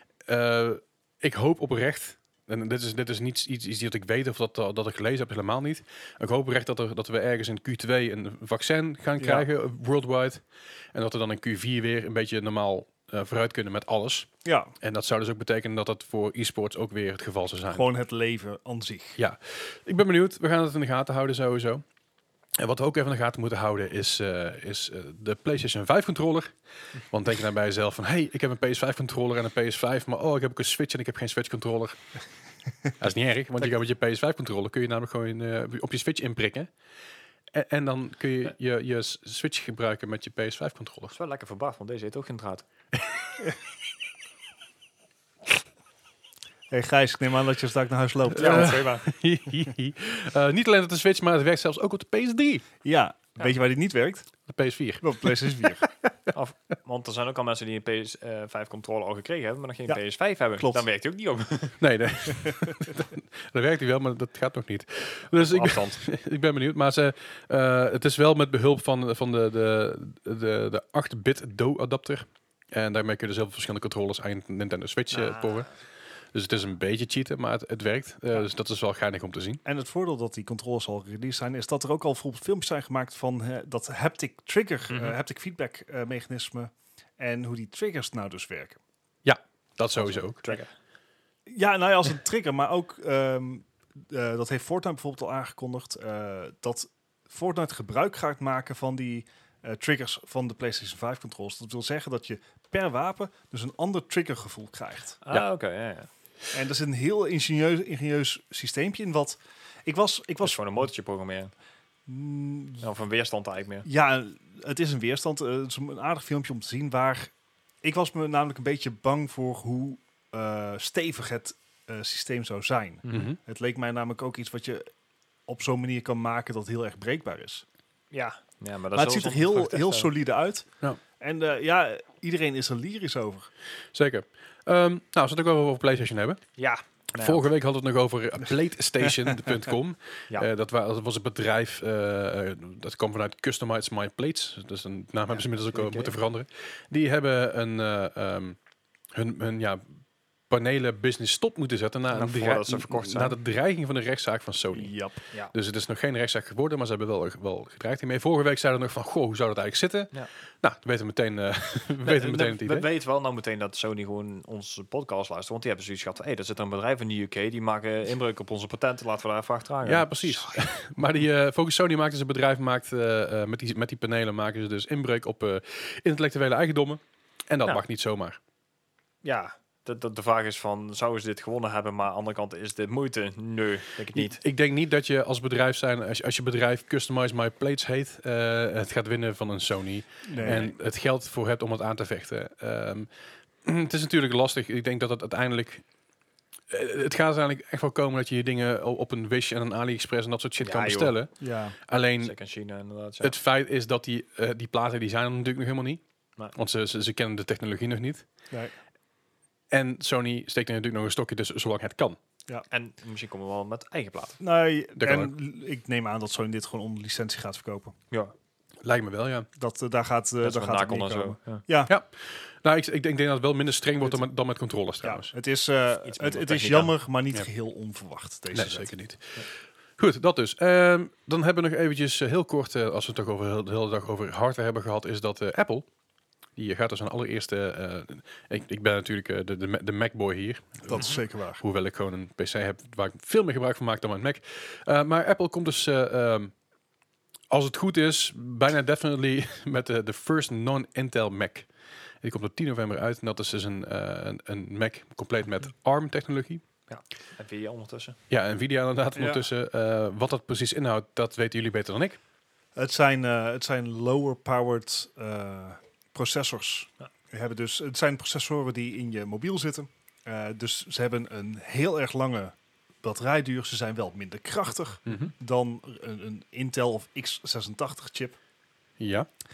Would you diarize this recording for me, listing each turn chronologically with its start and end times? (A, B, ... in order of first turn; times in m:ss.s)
0:00.2-0:10.4 A
0:09.2-0:09.4 B
0:10.9-0:14.3 A
0:14.4-0:14.7 B
0:14.8-0:17.8 A
0:17.7-0:19.2 B
0:19.2-0:21.8 A
0:22.6-0:32.0 A
0:33.0-0:36.7 A
0:37.5-0:41.1 A
0:41.1-0:42.6 C
0:46.7-0:48.8 B
0:48.4-0:49.1 C
0:48.4-0:52.7 A
0:52.8-0:54.3 B
0:54.5-0:55.8 A
0:55.0-0:55.8 B
0:56.3-1:01.8 C
1:00.6-1:00.8 B
1:01.8-1:15.7 A
1:05.3-1:06.0 C
1:15.1-1:15.7 C
1:16.3-1:19.6 A
1:19.6-1:28.8 B
1:24.9-1:25.2 C
1:29.2-1:30.6 A
1:30.0-1:30.7 C
1:31.5-1:45.2 B
1:45.2-1:46.1 C
1:46.5-1:50.6 B
1:50.4-1:51.5 C
1:52.1-1:52.9 B
1:52.8-1:53.9 C
1:53.8-1:57.3 B
1:57.8-2:04.9 B
2:03.0-2:03.3 C
2:03.1-2:03.4 A
2:05.5-2:07.6 B
2:08.1-2:10.1 C
2:08.9-2:10.7 B
2:11.2-2:13.5 B
2:13.9-2:16.4 A
2:16.6-2:17.4 C
2:17.2-2:28.6 A
2:25.3-2:26.2 C
2:29.1-2:30.0 A
2:30.5-2:35.0 A
2:32.1-2:33.4 C
2:34.7-2:35.2 B
2:35.5-2:42.9 A
2:42.0-2:50.6 C
2:49.8-2:58.4 A
2:59.2-3:04.4 C
3:04.1-3:13.1 A
3:10.2-3:10.7 B
3:10.4-3:10.7 C
3:13.6-3:15.8 A
3:16.7-3:21.3 A
3:20.6-3:21.2 C
3:21.4-3:21.8 B
3:21.8-3:22.3 A
3:22.2-3:23.4 C
3:23.2-3:26.0 A
3:26.5-3:28.2 A
3:29.7-3:32.2 A
3:32.7-3:34.4 C
3:34.4-3:37.9 B
3:35.0-3:35.3 A
3:38.8-3:39.5 A
3:39.6-3:41.9 B
3:40.4-3:41.6 C
3:41.9-3:45.3 A
3:45.0-3:48.9 B
3:46.0-3:46.9 C
3:48.5-3:55.8 A
3:56.6-4:06.5 A
4:00.9-4:01.6 B
4:07.5-4:11.7 A
4:12.2-4:16.6 A
4:16.9-4:18.2 C
4:18.3-4:22.2 A
4:19.1-4:19.4 B
4:22.8-4:38.4 B
4:39.0-4:39.3 A